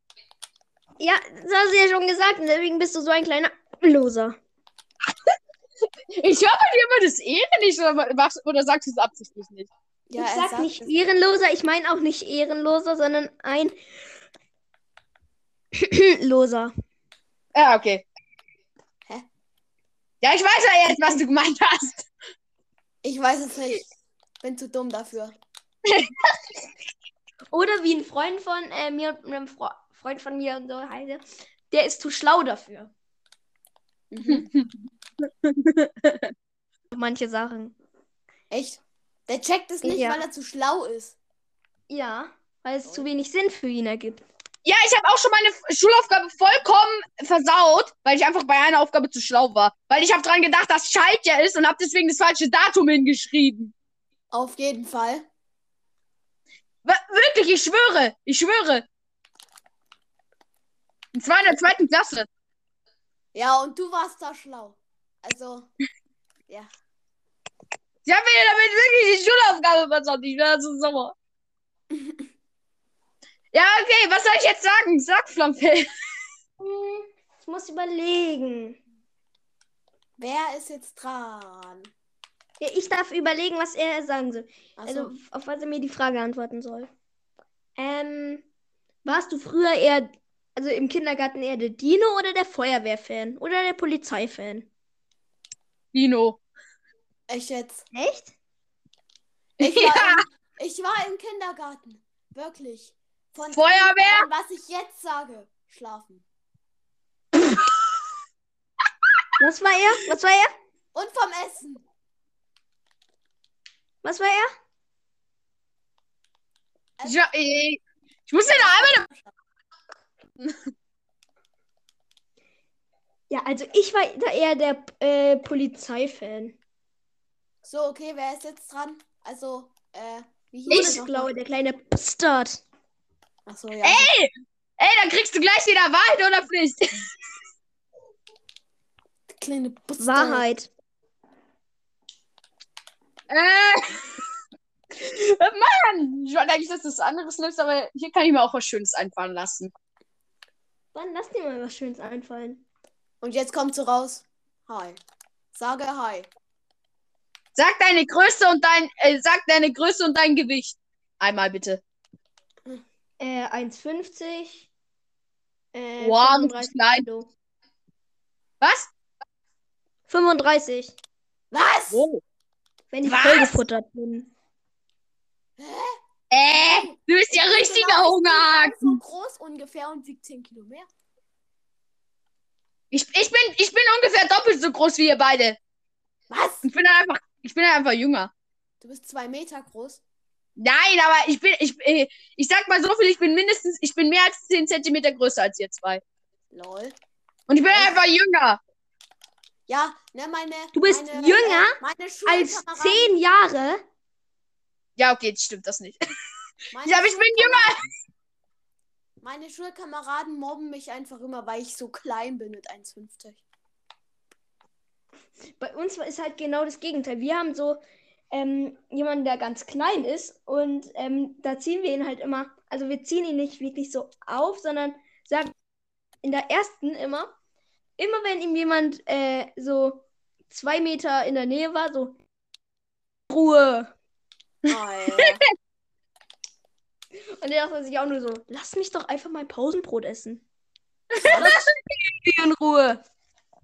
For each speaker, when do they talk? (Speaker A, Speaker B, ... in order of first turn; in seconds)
Speaker A: 1.0-4.4, 10.2-13.8, 15.7-16.7, 27.5-32.9, 36.9-37.8, 39.8-40.2, 41.9-44.2, 76.6-78.8, 82.6-86.9, 87.8-88.5, 89.0-94.7, 97.9-98.3, 109.4-110.5, 114.0-114.5, 123.3-126.6, 130.7-132.6, 140.0-140.7, 150.9-152.6, 163.2-164.7, 165.7-167.3, 170.1-171.0, 172.9-174.3, 200.7-203.8, 215.6-217.8, 218.3-225.5, 226.2-227.3, 228.0-232.2, 233.3-233.9, 237.4-240.4, 241.3-243.0
Speaker B: 6.1-9.7, 17.6-18.1, 20.2-22.1, 25.9-26.4, 34.3-36.3, 44.6-53.7, 56.9-58.9, 61.1-62.3, 68.1-71.2, 73.5-75.9, 95.9-96.4, 99.6-100.2, 103.5-104.3, 117.0-119.1, 130.7-131.0, 133.8-137.1, 143.3-144.2, 144.9-149.7, 157.6-161.8, 166.0-167.1, 168.6-168.9, 171.9-172.2, 173.0-173.6, 176.3-179.0, 182.9-185.6, 186.6-188.3, 190.6-196.0, 197.5-198.6, 205.0-206.0, 206.8-207.8, 241.1-241.6
Speaker C: 10.1-10.9, 23.0-23.9, 24.4-25.4, 34.1-34.5, 38.5-41.2, 54.3-55.3, 63.3-65.7, 80.2-81.9, 84.8-85.1, 97.3-97.8, 99.6-106.2, 110.9-111.8, 118.4-119.3, 127.6-131.3, 133.5-134.1, 139.3-140.4, 153.2-155.0, 155.5-156.3, 171.5-172.1, 175.6-176.0, 176.5-180.9, 186.3-186.7, 188.8-190.0, 196.5-196.9, 197.7-197.9, 199.7-203.1, 206.7-207.7, 209.2-213.4, 234.7-235.4, 241.2-241.6